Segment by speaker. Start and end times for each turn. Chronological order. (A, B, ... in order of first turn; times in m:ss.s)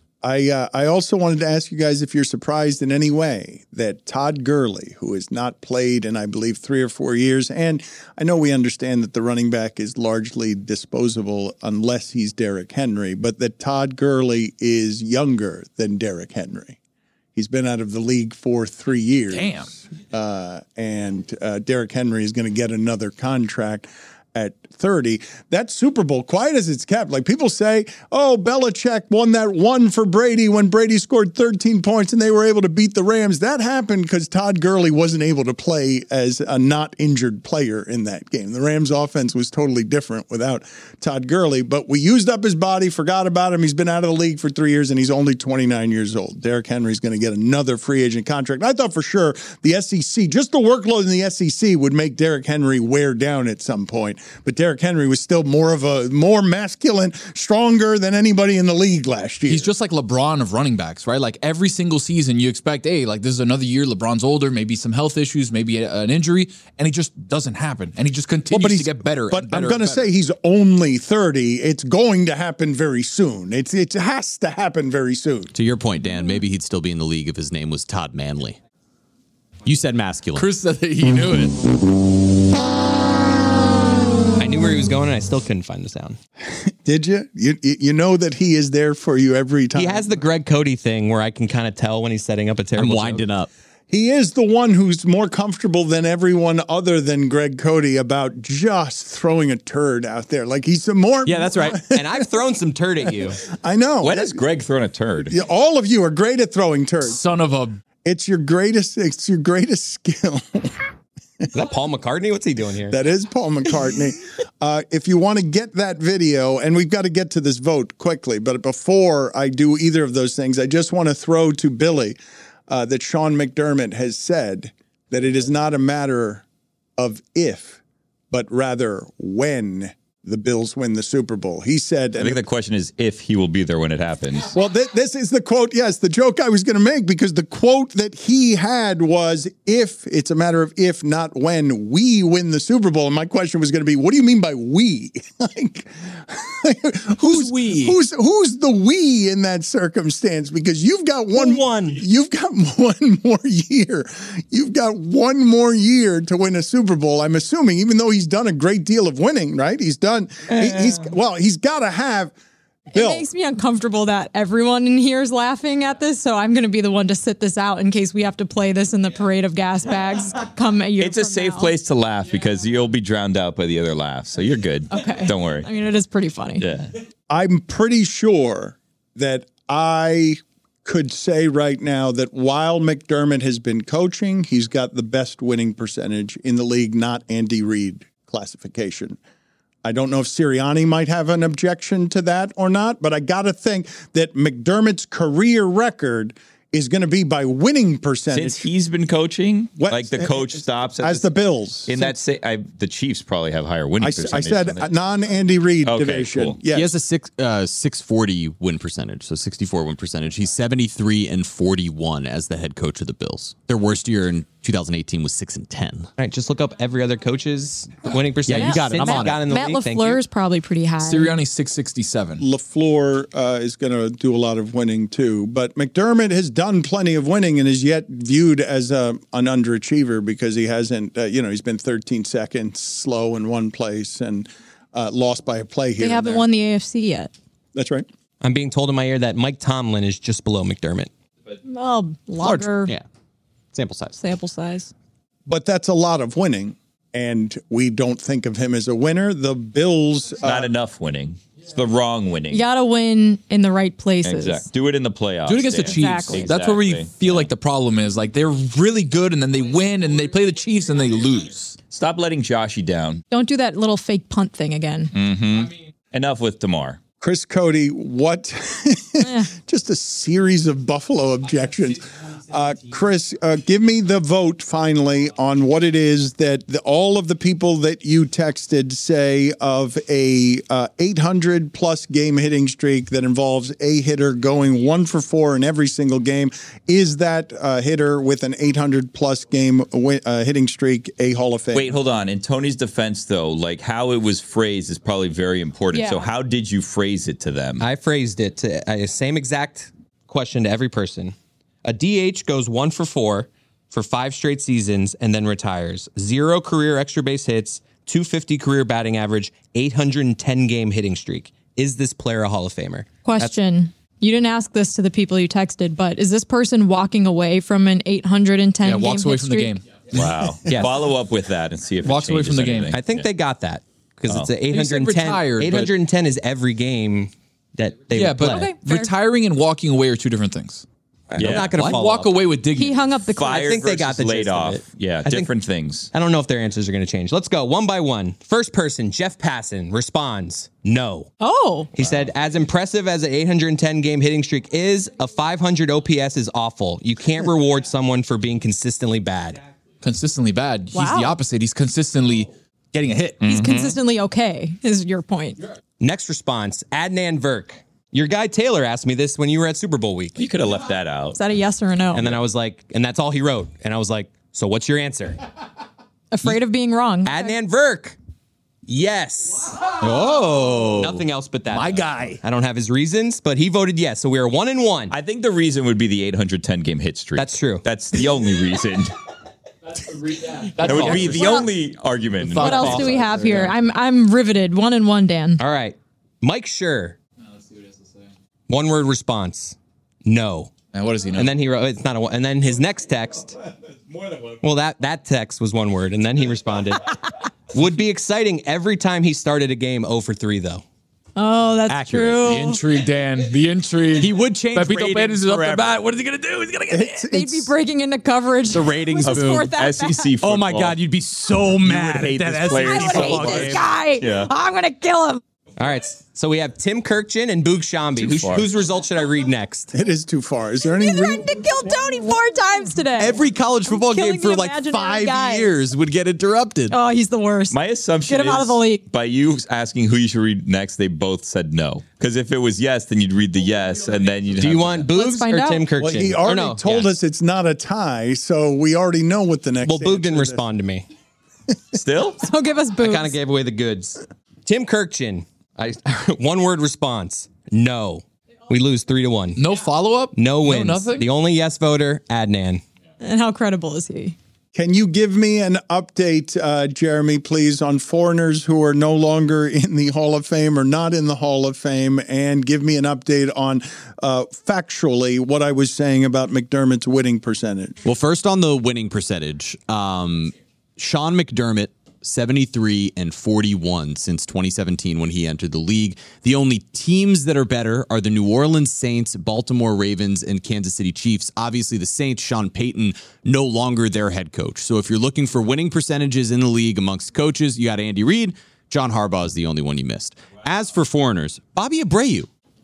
0:00.2-0:16.8 A
0:17.4-0:59.7 A
0:19.3-0:19.7 B
0:59.5-1:10.1 B
1:08.5-1:15.5 A
1:15.5-1:18.6 C
1:19.6-1:20.5 C
1:20.4-1:21.6 B
1:24.4-1:26.2 D
1:26.5-1:30.2 A
1:29.8-1:33.3 D
1:32.8-1:33.5 C
1:33.9-1:42.4 A
1:41.2-1:41.8 C
1:41.9-1:43.4 D
1:43.0-1:44.4 A
1:44.0-1:45.3 E
1:45.2-1:47.2 A
1:47.0-1:47.8 B
1:48.0-1:50.7 A
1:51.5-1:53.0 D
1:52.9-2:02.2 A
2:02.7-2:06.4 A
2:07.0-2:07.8 A
2:08.3-2:12.4 A
2:12.2-2:14.5 E
2:14.5-2:42.4 A
2:27.3-2:27.8 B
2:31.3-2:32.0 D
2:40.5-2:41.1 D
2:42.9-2:43.3 A
2:42.9-2:51.8 F
2:51.0-2:55.7 E
2:54.9-2:56.7 F
2:56.6-2:56.9 E
2:57.3-3:09.2 A
3:09.8-3:18.7 A
3:18.3-3:21.3 E
3:19.8-3:22.2 A
3:21.9-3:24.9 E
3:24.0-3:27.0 A
3:25.8-3:26.6 E
3:26.7-3:36.1 C
3:36.2-3:40.2 D
3:38.5-3:39.4 C
3:38.6-3:41.3 F
3:41.0-3:42.4 B
3:42.4-3:56.5 A
3:56.0-3:57.3 F
3:57.8-3:58.1 A
3:58.4-4:01.1 D
4:01.6-4:02.9 F
4:02.4-4:03.1 C
4:03.7-4:04.2 C
4:04.2-4:04.9 F
4:05.5-4:10.7 A
4:10.4-4:12.7 E
4:12.5-4:14.7 F
4:14.2-4:17.5 E
4:15.5-4:21.8 B
4:15.9-4:16.5 F
4:21.9-4:23.2 E
4:23.3-4:25.1 F
4:25.1-4:27.0 E
4:27.2-4:52.0 A
4:29.2-4:29.5 F
4:51.7-4:57.8 E
4:55.9-4:56.3 F
4:57.8-5:13.6 D
5:13.2-5:19.8 F
5:18.8-5:20.2 B
5:20.1-5:23.3 E
5:20.7-5:21.0 D
5:22.0-5:23.0 B
5:22.9-5:28.7 D
5:24.7-5:25.9 B
5:28.1-5:30.8 B
5:28.4-5:29.1 F
5:31.3-5:32.4 D
5:31.4-5:31.8 E
5:31.6-5:33.0 B
5:32.8-5:33.7 F
5:33.4-5:36.1 E
5:33.4-5:35.5 D
5:36.1-5:41.3 D
5:41.4-5:41.9 F
5:41.9-5:49.6 D
5:42.0-5:42.3 E
5:50.0-5:53.9 B
5:50.9-5:51.4 F
5:53.4-5:55.6 F
5:53.5-5:53.9 E
5:56.0-6:00.4 D
6:00.4-6:01.4 E
6:01.3-6:02.3 F
6:02.1-6:05.4 D
6:06.3-6:07.6 F
6:07.2-6:08.2 D
6:08.9-6:09.7 D
6:10.0-6:11.2 C
6:11.0-6:15.2 D
6:11.7-6:12.4 B
6:15.1-6:19.1 E
6:17.4-6:17.9 D
6:20.4-6:21.7 B
6:20.8-6:23.6 E
6:20.8-6:21.7 F
6:22.4-6:23.7 B
6:22.6-6:25.6 F
6:25.6-6:27.2 D
6:28.7-6:30.7 D
6:30.9-6:31.6 B
6:31.4-6:33.5 D
6:34.6-6:37.1 D
6:37.7-6:40.8 D
6:41.4-6:42.8 F
6:41.9-6:42.5 D
6:42.4-6:47.2 B
6:44.2-6:45.9 C
6:46.9-6:47.7 A
6:47.2-6:50.3 F
6:48.7-6:49.6 B
6:48.8-6:49.4 C
6:49.2-6:51.0 E
6:50.4-6:53.8 C
6:51.8-6:54.5 E
6:52.8-6:55.4 F
6:55.8-6:59.9 D
6:58.2-6:58.7 E
6:59.9-7:01.7 A
7:00.9-7:05.7 F
7:03.2-7:07.0 C
7:06.9-7:09.0 F
7:07.7-7:15.1 E
7:14.6-7:17.1 D
7:15.1-7:15.9 F
7:16.0-7:20.6 A
7:19.8-7:21.1 D
7:22.0-7:22.4 E
7:22.4-7:23.4 F
7:23.0-7:29.6 D
7:29.6-7:31.3 B
7:30.4-7:32.8 D
7:33.2-7:34.4 F
7:34.7-7:48.0 A
7:48.0-8:12.5 C